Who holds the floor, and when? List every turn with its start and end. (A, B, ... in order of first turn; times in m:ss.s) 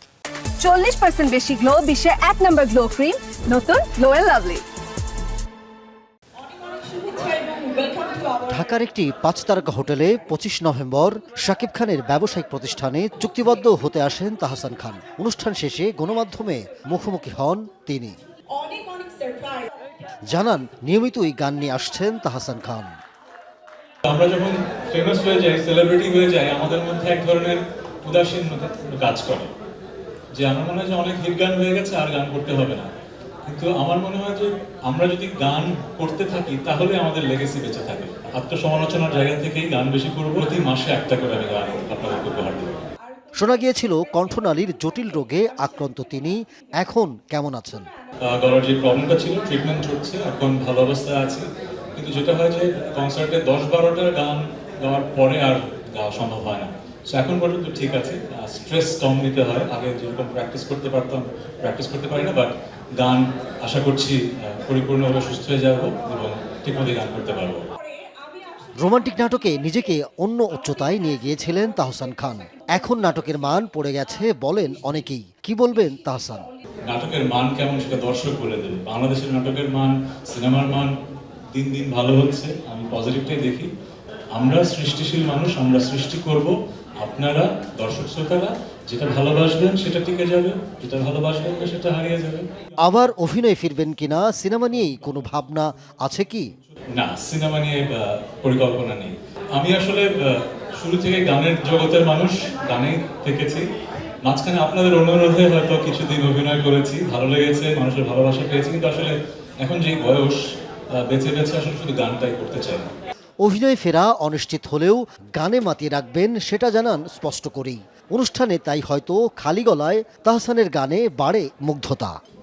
0:00.6-0:04.6 A
0:06.9-0:07.9 A
0:08.3-0:18.2 B
0:20.3-0:23.0 B
0:24.0-0:29.5 C
0:30.3-0:32.9 C
0:33.5-0:42.8 C
0:43.4-0:47.9 B
0:48.2-1:07.7 C
1:08.8-1:16.5 B
1:16.8-1:21.0 C
1:21.5-1:23.7 C
1:24.3-1:32.5 C
1:32.8-1:36.5 B
1:36.9-1:43.7 C
1:44.2-1:52.9 C
1:53.4-2:02.2 B